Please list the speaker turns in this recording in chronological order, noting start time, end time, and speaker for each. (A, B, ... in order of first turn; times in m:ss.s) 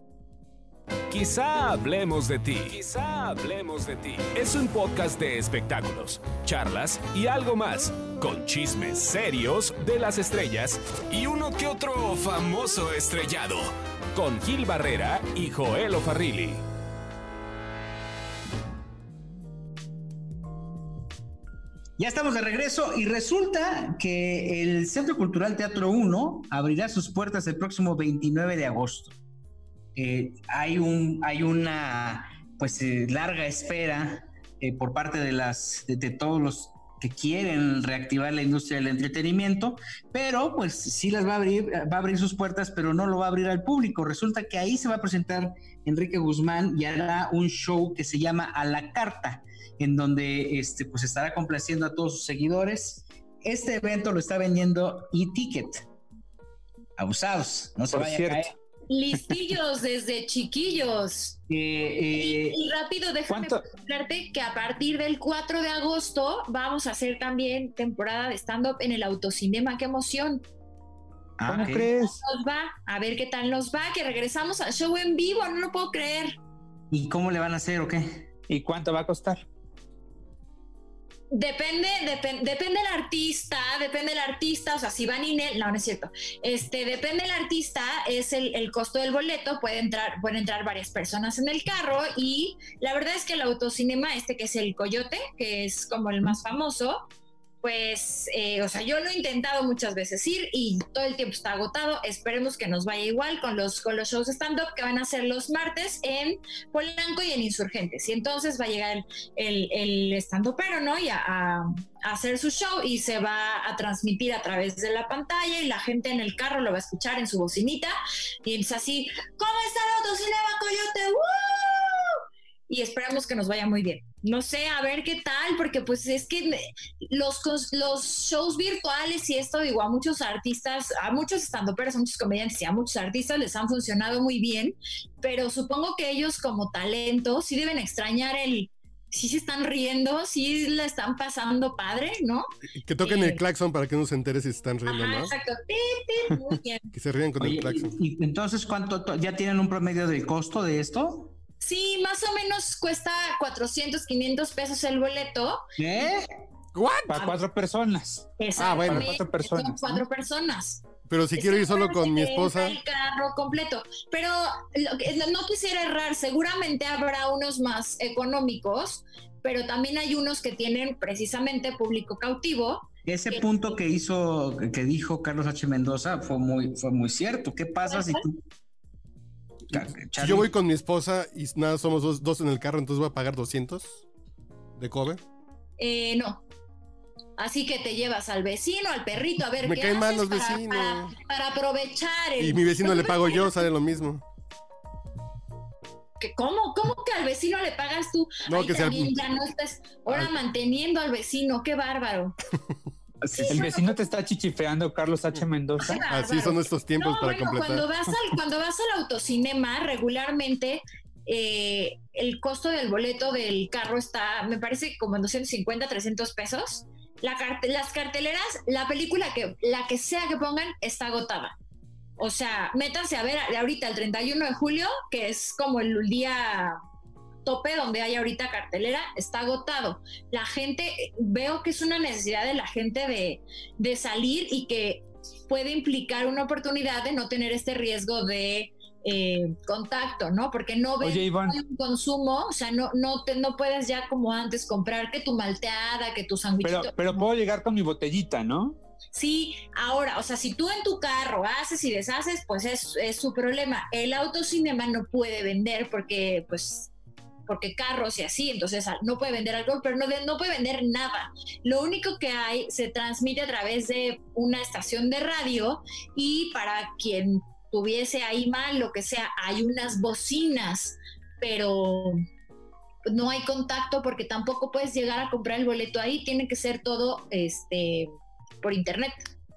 0:01.1-0:16.6 A
0:22.0-0:29.2 B
0:29.9-0:55.9 B
0:57.0-0:58.5 B
0:57.9-0:58.5 C
0:58.9-1:01.4 D
1:01.5-1:02.6 B
1:02.1-1:10.4 D
1:03.3-1:03.6 C
1:11.4-1:11.9 B
1:11.5-1:12.2 C
1:12.0-1:16.4 D
1:16.9-1:18.2 B
1:18.5-1:19.4 C
1:21.3-1:37.1 D
1:37.6-2:22.4 D
2:22.8-2:25.3 E
2:23.0-2:23.4 D
2:24.8-2:26.9 D
2:26.9-2:27.9 E
2:27.4-2:31.3 B
2:31.6-2:35.6 D
2:35.8-2:36.3 B
2:36.7-2:37.1 E
2:37.1-2:37.4 D
2:37.1-2:40.0 C
2:38.4-2:53.4 D
2:38.6-2:39.0 E
2:41.1-2:42.8 E
2:53.0-2:58.4 B
2:57.8-2:58.2 D
2:59.7-3:00.5 B
3:00.2-3:04.0 E
3:04.8-3:05.2 E
3:05.8-3:06.4 D
3:07.4-3:13.6 D
3:09.6-3:11.1 E
3:12.4-3:14.2 E
3:16.2-3:22.3 D
3:18.5-3:19.2 E
3:23.2-3:23.7 B
3:23.4-3:24.0 D
3:23.5-3:26.0 C
3:25.8-3:41.5 D
3:26.1-3:27.9 E
3:42.2-3:46.8 D
3:47.4-4:06.9 D
4:01.0-4:01.6 C
4:06.6-4:08.8 C
4:09.1-4:16.9 D
4:17.5-4:32.2 D
4:33.1-4:38.1 D
4:38.6-4:39.1 D